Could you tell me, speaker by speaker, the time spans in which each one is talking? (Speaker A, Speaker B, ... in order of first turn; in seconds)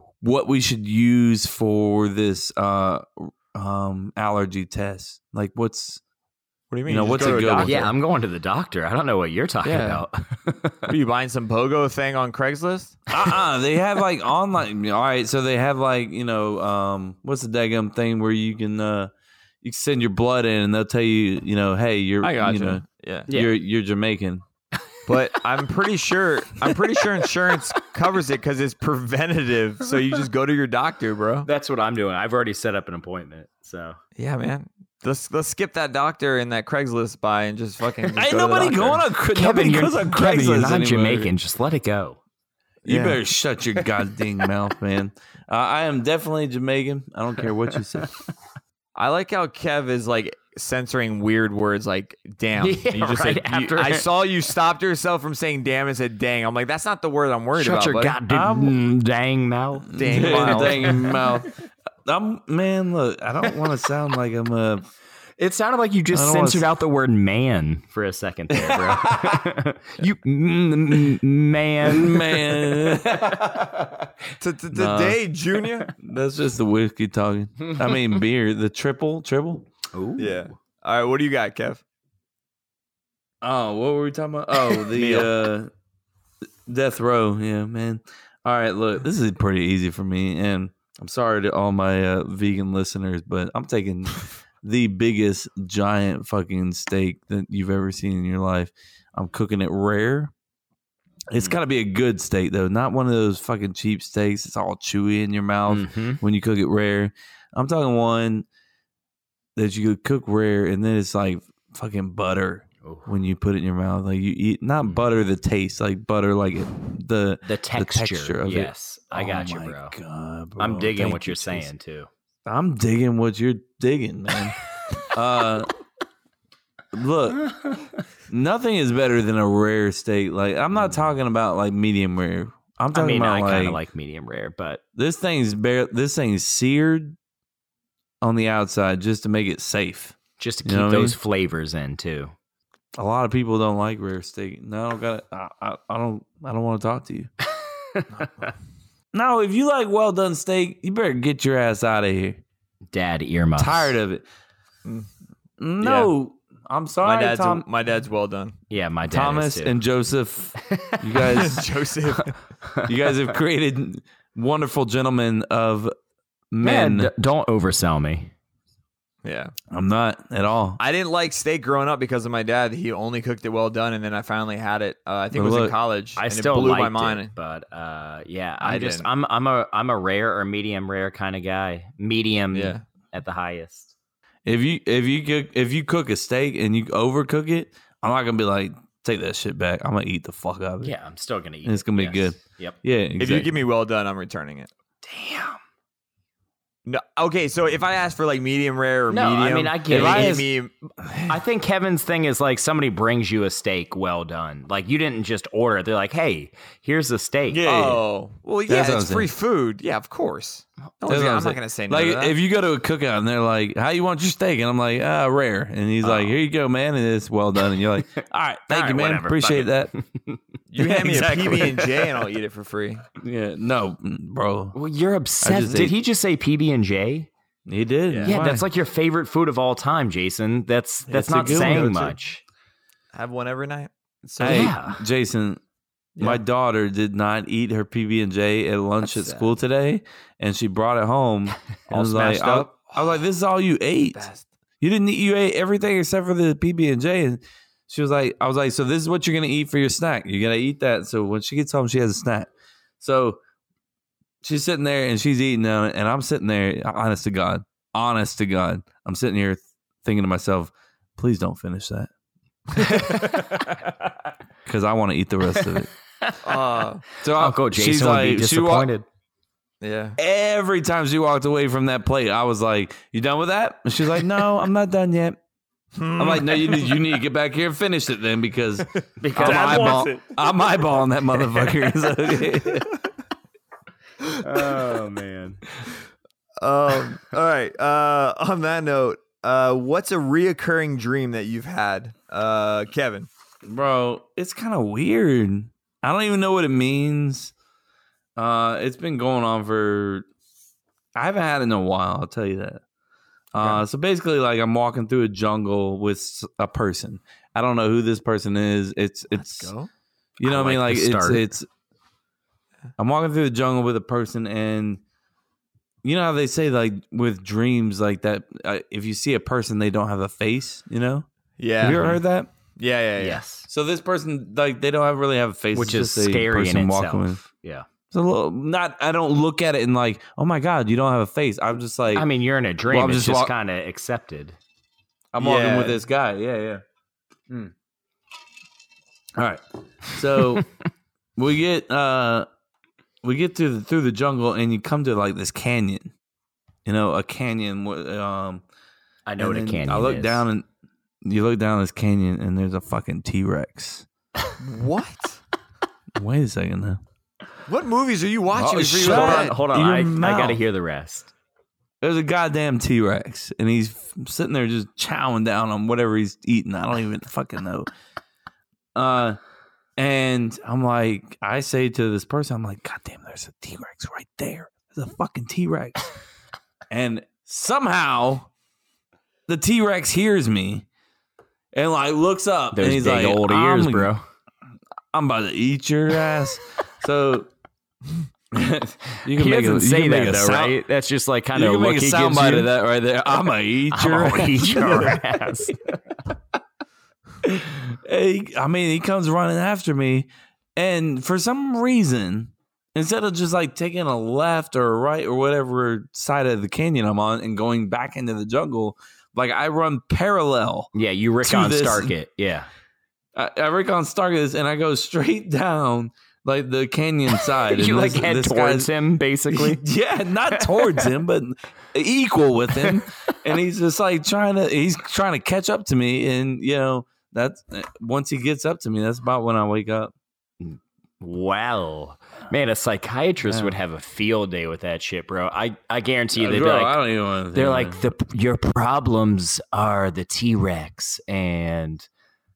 Speaker A: 0.2-6.0, 6.9-7.9, 13.1-19.1, 19.6-24.4, 38.2-41.3, 42.9-48.1, 58.3-58.8, 59.9-61.5, 62.1-64.9, 66.1-66.7, 68.5-69.4, 71.8-73.7, 74.7-75.2, 76.0-79.7, 83.4-85.7, 86.7-100.3, 101.3-108.5, 109.6-121.7, 122.5-124.5, 125.1-125.7, 126.9-127.5, 128.3-133.8, 135.0-137.2, 138.2-141.2, 143.0-147.3, 149.1-152.4, 153.6-154.2, 155.6-157.7, 159.1-161.6, 162.8-165.9, 166.5-167.1, 169.7-170.8, 175.3-175.8, 184.4-190.9, 191.7-193.5, 199.9-200.5, 201.0-201.3, 207.5-208.0, 208.7-209.3, 211.1-219.9, 220.8-222.0, 223.2-224.8, 225.4-226.0, 227.7-228.7, 231.1-232.1, 234.4-235.6, 236.2-244.3, 244.8-252.5, 253.0-253.4, 254.4-262.1, 264.7-265.9, 267.2-268.9, 270.2-275.4, 276.2-282.9, 293.6-297.5, 298.4-300.3, 301.2-302.8, 303.5-309.7, 310.4-311.7, 313.0-315.0, 316.0-321.2, 321.8-322.5, 323.7-327.4, 328.1-332.3, 332.9-333.5, 335.3-336.8, 339.4-340.7, 341.4-342.5, 343.2-346.1, 346.9-348.6, 349.4-350.7, 351.2-354.1, 356.2-357.0, 358.5-360.6, 362.0-367.9, 368.9-369.4, 370.0-376.1, 376.9-378.5, 379.5-380.9, 381.7-384.1, 385.1-387.5, 388.5-390.8, 391.5-395.2, 397.4-410.9, 411.4-412.1, 413.4-418.9, 419.5-430.1, 433.4-433.8, 436.4-438.1
Speaker B: 6.7-7.9, 9.6-10.0, 10.9-13.0, 22.2-23.3, 25.1-31.5, 34.2-39.1, 42.9-43.2, 49.0-58.2, 60.0-61.2, 74.4-75.9, 80.2-81.8, 85.0-85.2, 148.2-148.5, 155.8-156.1, 157.0-158.6, 161.4-162.4, 169.2-169.5, 170.8-177.3, 178.6-179.1, 182.5-182.8, 193.2-194.7, 196.9-200.8, 207.6-212.4, 216.0-216.3, 220.7-223.0, 228.1-228.4, 231.2-232.1, 233.1-234.7, 236.2-236.4, 239.1-239.5, 241.9-243.2, 244.1-244.5, 262.8-263.7, 266.4-267.0, 269.8-270.2, 275.9-277.0, 279.4-280.5, 281.4-281.9, 286.6-293.3, 303.6-303.8, 309.3-309.9, 321.6-322.2, 322.8-323.4, 335.4-336.0, 354.6-355.4, 357.7-359.6
Speaker C: 7.2-10.9, 31.4-34.0, 39.3-42.2, 52.6-54.1, 57.5-61.0, 65.4-73.3, 79.9-80.5, 105.7-106.2, 112.8-113.1, 114.8-115.1, 117.4-120.0, 120.6-122.1, 132.9-134.8, 140.4-142.3, 147.9-148.2, 152.9-154.0, 158.7-159.8, 160.7-161.4, 166.6-168.3, 176.2-183.9, 190.8-192.8, 195.0-195.6, 199.1-200.4, 201.3-207.6, 218.7-220.4, 224.7-227.3, 228.2-232.4, 234.4-235.0, 265.7-266.6, 267.2-269.1, 279.2-280.1, 284.4-285.6, 310.4-311.5, 323.2-323.7, 325.7-327.9, 332.1-334.6, 349.3-350.4, 358.8-361.3, 382.7-384.2, 389.2-392.7, 393.9-396.0, 410.9-412.7, 417.3-419.8, 420.5-421.1, 422.7-423.1, 430.6-437.0, 437.5-442.1